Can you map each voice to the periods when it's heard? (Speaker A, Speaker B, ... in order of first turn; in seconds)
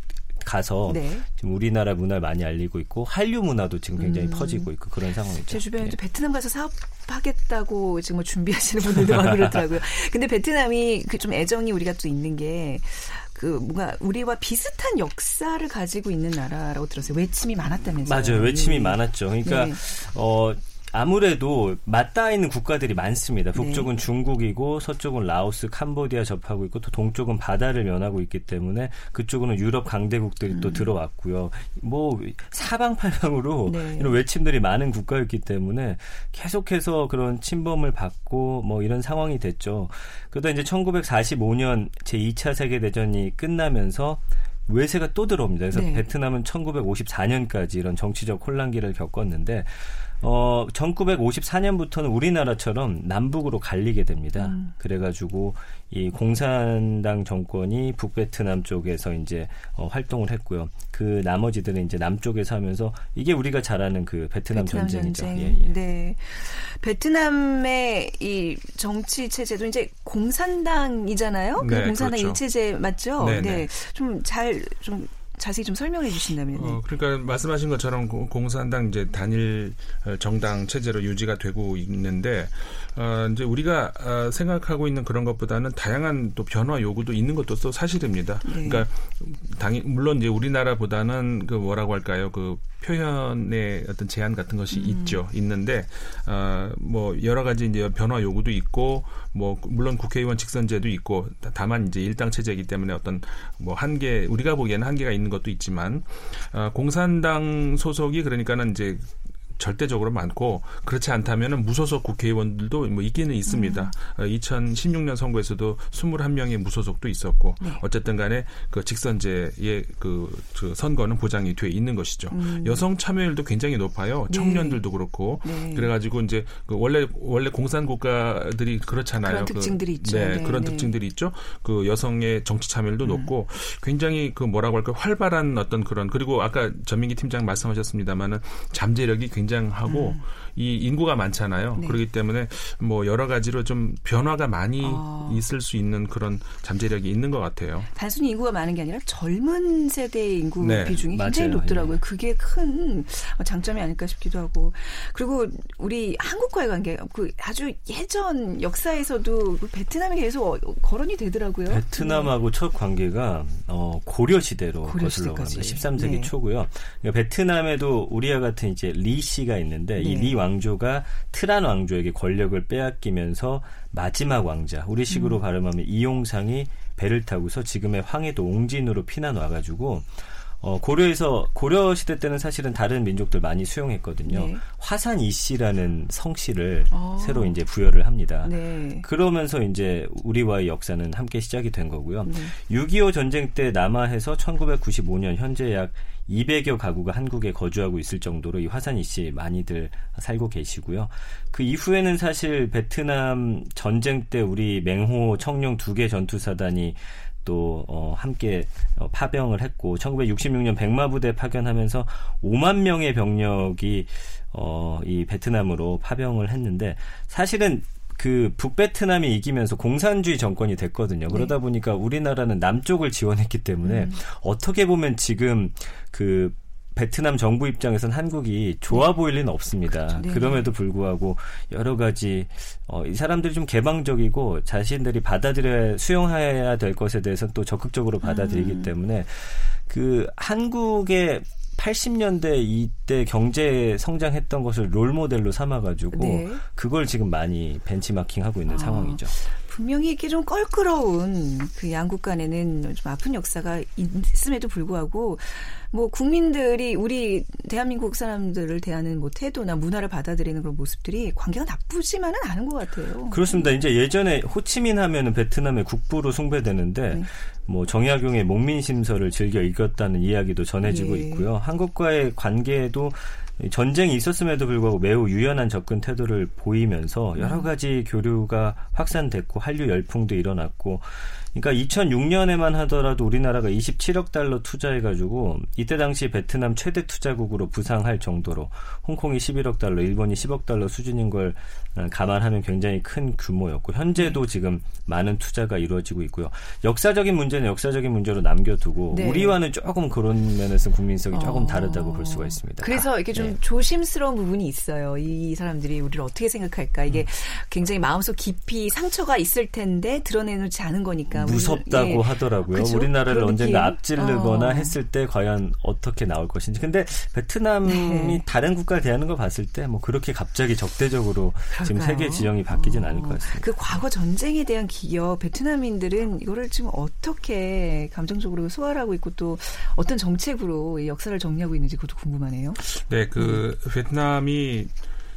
Speaker A: 0.4-6.0, 18.0-65.7, 151.1-151.9, 161.7-249.4, 263.3-303.6, 311.3-323.7
Speaker B: 0.9-1.2, 4.0-4.7, 5.5-19.8, 23.5-23.9, 30.5-30.9, 33.6-34.1, 45.7-46.0, 54.4-54.7, 64.5-76.8, 88.4-88.9, 94.7-95.2, 113.5-113.9, 122.3-122.8, 124.3-124.8, 125.4-125.9, 129.2-130.9, 133.0-133.3, 139.9-140.2, 141.7-142.0, 144.8-145.4, 147.9-162.3, 164.8-166.3, 170.0-170.4, 175.1-175.4, 184.3-184.6, 186.9-187.6, 188.4-189.1, 192.2-192.5, 223.8-224.2, 230.2-230.7, 238.2-238.9, 246.1-246.6, 248.7-263.7, 270.8-271.4, 277.4-277.7, 299.1-299.6, 301.3-314.9, 317.8-318.4, 321.7-332.8, 333.4-333.6
Speaker C: 71.6-72.4, 73.2-73.7, 76.5-147.9, 150.6-151.0, 332.9-334.9